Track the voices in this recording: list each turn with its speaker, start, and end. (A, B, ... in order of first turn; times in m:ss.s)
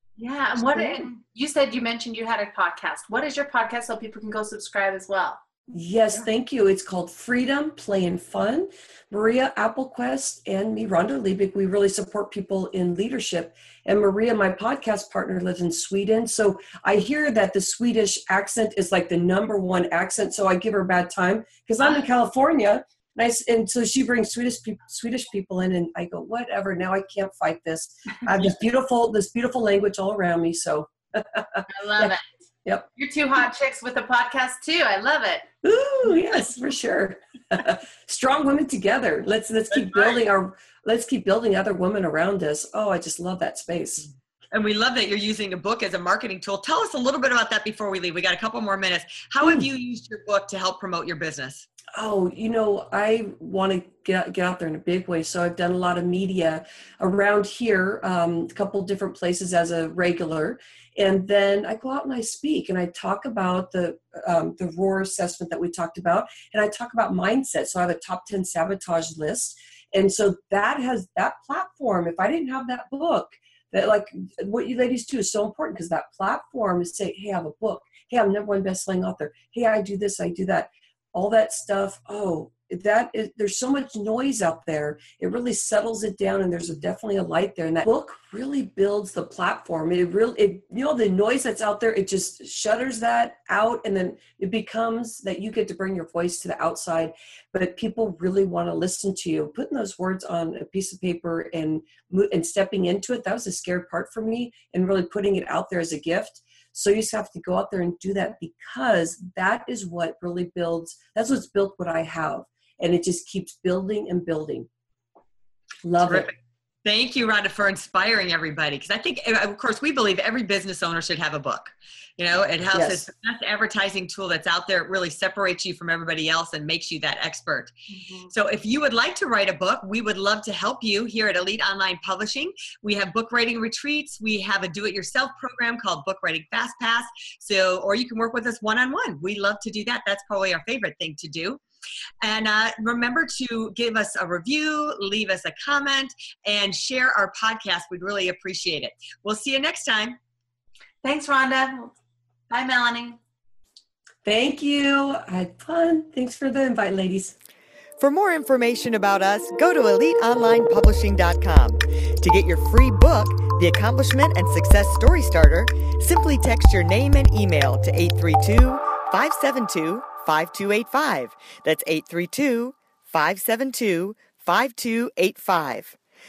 0:00.2-0:05.4 A
0:00.6-0:01.1 B
0:05.7-0:32.1 B
0:31.7-0:32.2 A
0:33.0-0:35.5 A
0:35.6-0:44.1 B
0:39.9-0:40.2 C
0:44.5-0:51.7 C
0:49.4-0:49.7 B
0:52.0-1:54.7 B
1:55.8-1:56.3 B
1:56.0-2:07.7 C
2:02.7-2:03.1 B
2:07.9-2:08.3 A
2:08.3-2:21.6 C
2:22.2-2:30.2 C
2:31.0-2:31.9 A
2:32.5-2:33.2 A
2:34.2-2:37.3 B
2:38.0-2:56.0 D